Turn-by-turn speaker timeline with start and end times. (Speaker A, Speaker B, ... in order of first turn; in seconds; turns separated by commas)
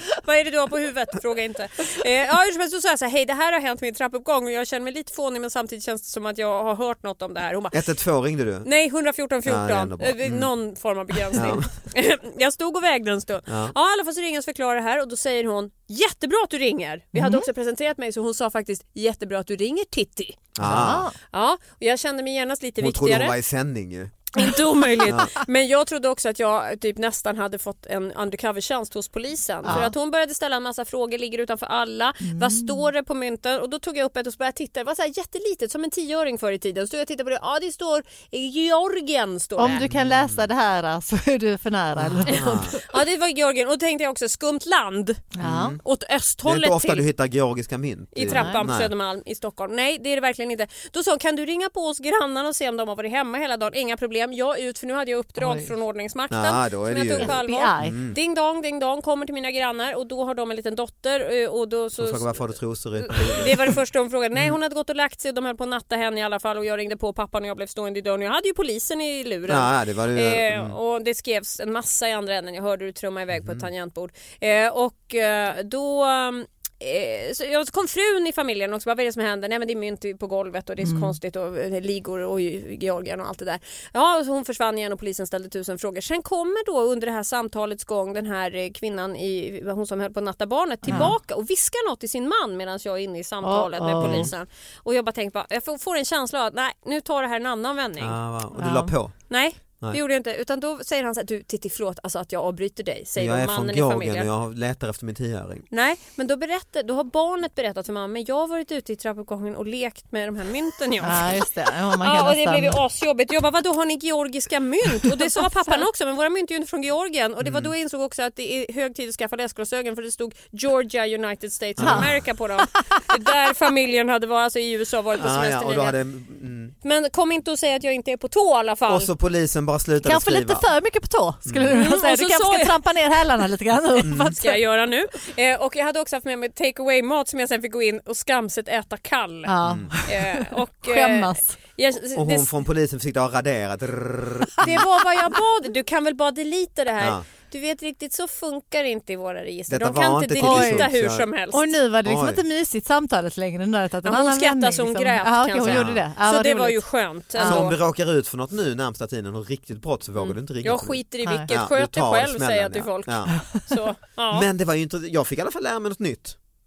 Speaker A: 0.1-7.8, Speaker B: 7.7-8.7, Speaker A: 8.6-23.4, Speaker B: 9.4-10.5, Speaker B: 11.3-11.7, Speaker B: 13.5-13.7, Speaker C: 17.1-17.5, Speaker B: 20.6-21.1, Speaker C: 20.6-21.1, Speaker B: 22.8-24.3, Speaker A: 24.4-39.8, Speaker B: 25.0-25.3, Speaker B: 29.6-29.9, Speaker C: 32.2-32.9, Speaker C: 39.6-42.8, Speaker B: 39.6-40.5, Speaker B: 42.0-42.8, Speaker A: 42.2-45.3, Speaker C: 45.3-45.8, Speaker B: 45.4-45.8, Speaker A: 45.8-47.1, Speaker B: 46.4-48.9, Speaker A: 48.1-98.2, Speaker C: 48.2-48.6, Speaker C: 55.4-55.7, Speaker B: 56.3-58.2, Speaker C: 57.2-58.0, Speaker B: 62.0-63.8, Speaker B: 69.5-70.8, Speaker B: 73.3-73.7, Speaker C: 80.8-81.2, Speaker C: 90.8-91.1, Speaker B: 90.9-91.1, Speaker C: 93.4-94.3, Speaker B: 94.0-94.3, Speaker B: 98.0-100.0, Speaker C: 98.6-99.0, Speaker A: 99.3-104.3, Speaker B: 103.2-105.7, Speaker A: 105.7-126.0, Speaker C: 111.0-112.8, Speaker C: 115.0-115.8, Speaker B: 117.4-117.7, Speaker B: 121.8-122.2, Speaker C: 121.8-123.0, Speaker B: 125.2-126.7, Speaker A: 126.8-129.1, Speaker B: 128.9-130.7, Speaker C: 130.0-134.6, Speaker B: 131.4-131.8, Speaker A: 131.7-133.2, Speaker B: 134.0-134.4, Speaker A: 134.3-142.5, Speaker C: 139.4-141.6, Speaker B: 139.6-140.0, Speaker B: 142.1-144.9, Speaker A: 144.6-151.7, Speaker B: 147.0-147.2, Speaker B: 149.7-151.3, Speaker C: 150.4-150.9, Speaker C: 151.5-157.7, Speaker B: 152.0-152.4, Speaker A: 154.0-157.8, Speaker B: 155.6-156.1, Speaker B: 157.4-163.3, Speaker A: 160.2-164.5, Speaker C: 161.2-161.5, Speaker C: 163.3-163.8, Speaker B: 164.3-166.4